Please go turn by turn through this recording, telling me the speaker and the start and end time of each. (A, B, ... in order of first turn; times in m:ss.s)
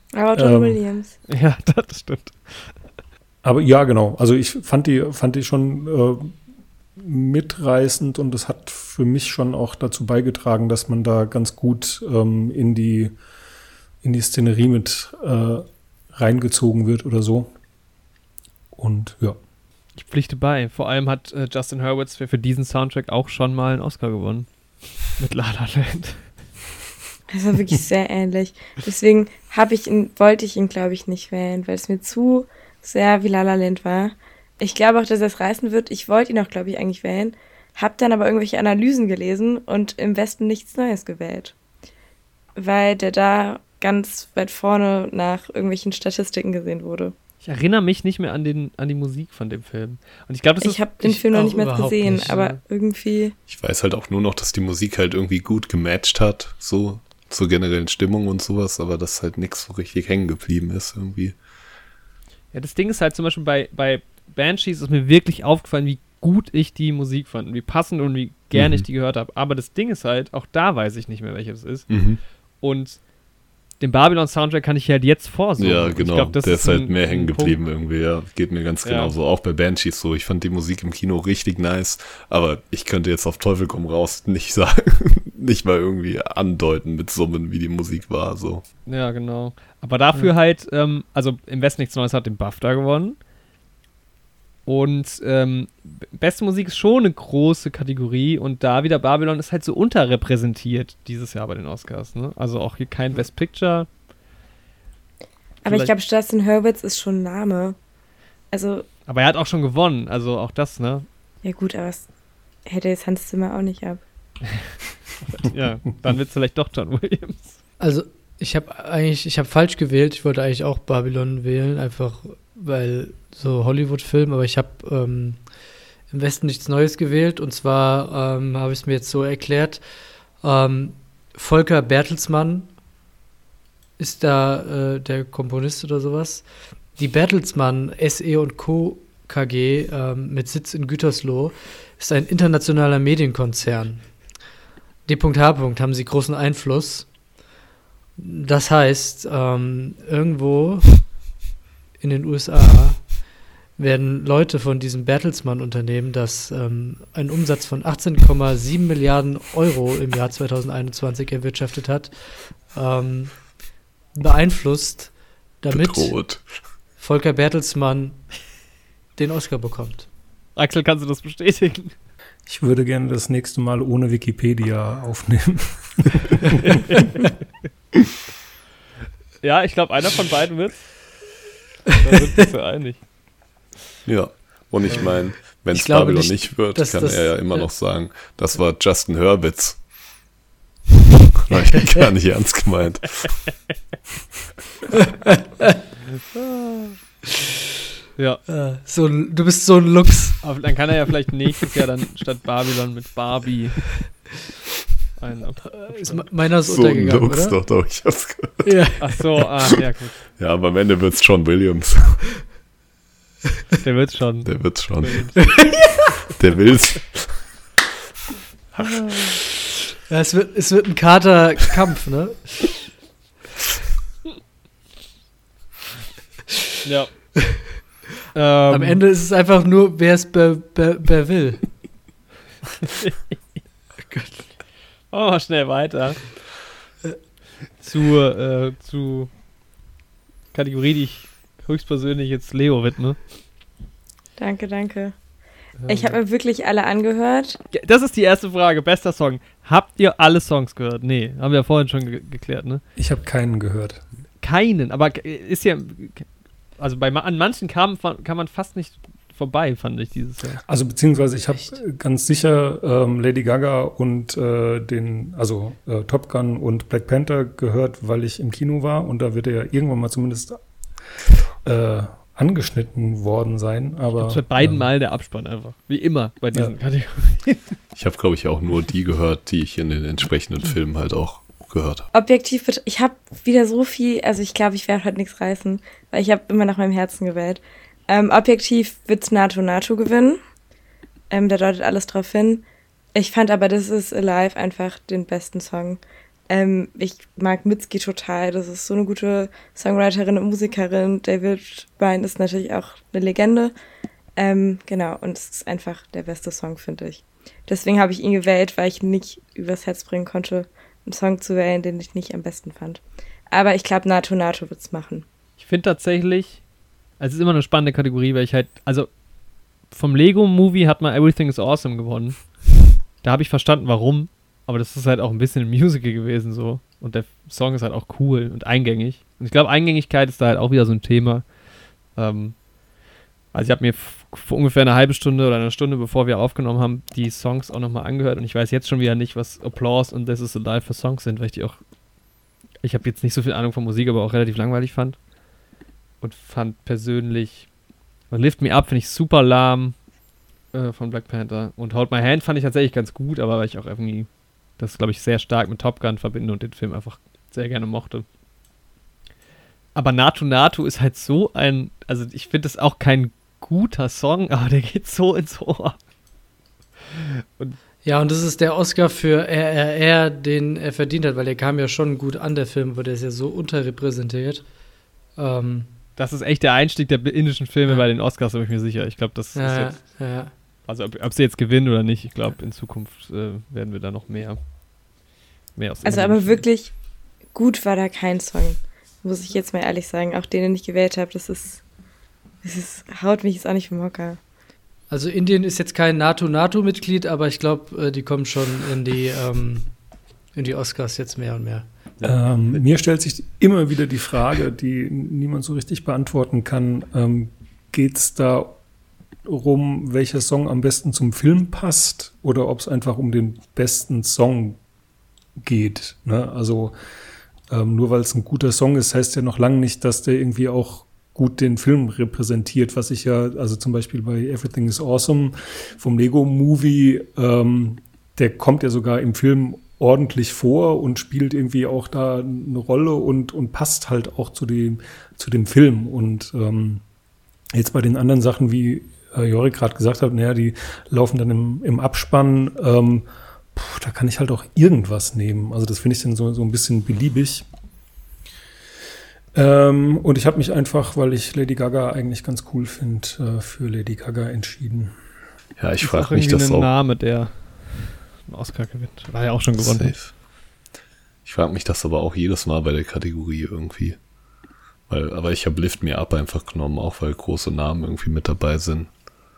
0:00.1-0:01.1 A
0:00.4-0:00.8 B
0:01.3-0:02.8 C
0:03.4-0:06.4 B
0:07.0-0:13.1 B
0:14.0-0:17.5 B
0:18.7-0:19.4 B
0:19.9-0:26.3 C
0:27.3-0:41.5 A
0:42.6-0:47.1 A
0:47.4-0:50.8 C
0:50.6-0:53.4 A
0:51.0-0:52.6 D
0:52.2-0:52.5 C
0:53.5-1:01.4 E
1:02.5-1:12.1 C
1:08.5-1:08.8 E
1:11.9-1:12.2 E
1:12.6-1:13.0 C
1:13.8-1:17.6 C
1:15.6-1:28.6 E
1:18.8-1:19.1 C
1:28.8-1:33.2 C
1:34.6-1:43.9 C
1:45.6-1:47.8 A
1:48.5-1:48.8 A
1:49.1-1:51.0 C
1:51.4-1:52.1 A
1:52.6-1:54.0 A
1:54.5-1:57.6 C
1:57.8-2:05.4 D
2:06.1-2:09.8 D
2:10.4-2:12.7 D
2:14.0-2:24.3 D
2:25.0-2:27.1 D
2:28.2-2:31.1 D
2:32.0-2:33.2 D
2:33.8-2:43.5 D
2:44.1-2:46.4 D
2:45.7-2:46.6 E
2:47.0-2:48.4 D
2:49.2-2:50.1 D
2:50.6-2:51.9 C
2:52.5-2:56.2 B
2:59.4-3:01.2 C
3:01.9-3:03.1 C
3:04.0-3:09.8 E
3:05.5-3:07.7 D
3:11.4-3:13.5 E
3:15.2-3:15.8 D
3:16.3-3:17.0 C
3:18.2-3:18.4 C
3:18.5-3:20.4 D
3:20.4-3:24.3 C
3:25.2-3:26.2 C
3:25.7-3:27.6 D
3:26.6-3:29.0 E
3:28.6-3:29.0 D
3:29.0-3:30.2 C
3:30.2-3:32.4 E
3:33.8-3:35.7 C
3:34.4-3:37.5 E
3:35.6-3:35.9 D
3:38.8-3:39.3 C
3:40.1-3:42.7 D
3:46.8-3:47.6 C
3:48.3-3:49.0 C
3:48.7-3:51.7 D
3:52.9-3:53.3 C
3:54.1-3:54.5 D
3:55.1-3:56.5 C
3:57.7-3:59.3 C
4:00.5-4:03.2 C
4:04.4-4:05.2 A
4:05.8-4:06.2 C
4:05.9-4:07.6 A
4:07.7-4:12.8 C
4:13.0-4:14.0 B
4:14.4-4:16.3 C
4:16.8-4:20.6 C
4:20.6-4:30.6 B
4:31.6-4:34.9 B
4:34.1-4:37.8 C
4:38.0-4:42.1 E
4:42.1-4:50.4 A
4:51.3-5:03.7 A
5:04.4-5:15.2 A
5:15.6-5:16.6 C
5:17.2-5:19.1 C
5:19.9-5:22.7 C
5:23.2-5:31.5 C
5:32.1-5:32.6 C
5:33.5-5:41.8 C
5:42.8-5:45.2 C
5:46.2-5:47.7 C
5:48.3-5:49.9 C
5:50.7-5:58.2 C
5:59.9-6:06.0 C
6:07.1-6:07.8 C
6:08.0-6:14.6 D
6:15.4-6:15.9 D
6:16.2-6:20.2 C
6:19.5-6:20.5 D
6:20.9-6:24.6 C
6:25.8-6:26.6 C
6:26.0-6:26.9 A
6:27.5-6:31.8 A
6:32.6-6:34.4 A
6:35.1-6:39.9 D
6:40.5-6:41.9 D
6:42.2-6:42.8 E
6:42.2-6:48.8 B
6:49.4-6:54.8 B
6:55.6-6:56.9 B
6:57.7-7:17.0 B
7:17.7-7:27.7 B
7:29.5-7:35.1 B
7:35.8-7:36.9 E
7:36.0-7:40.2 C
7:39.8-7:40.3 E
7:41.4-7:44.2 E
7:45.1-7:49.1 E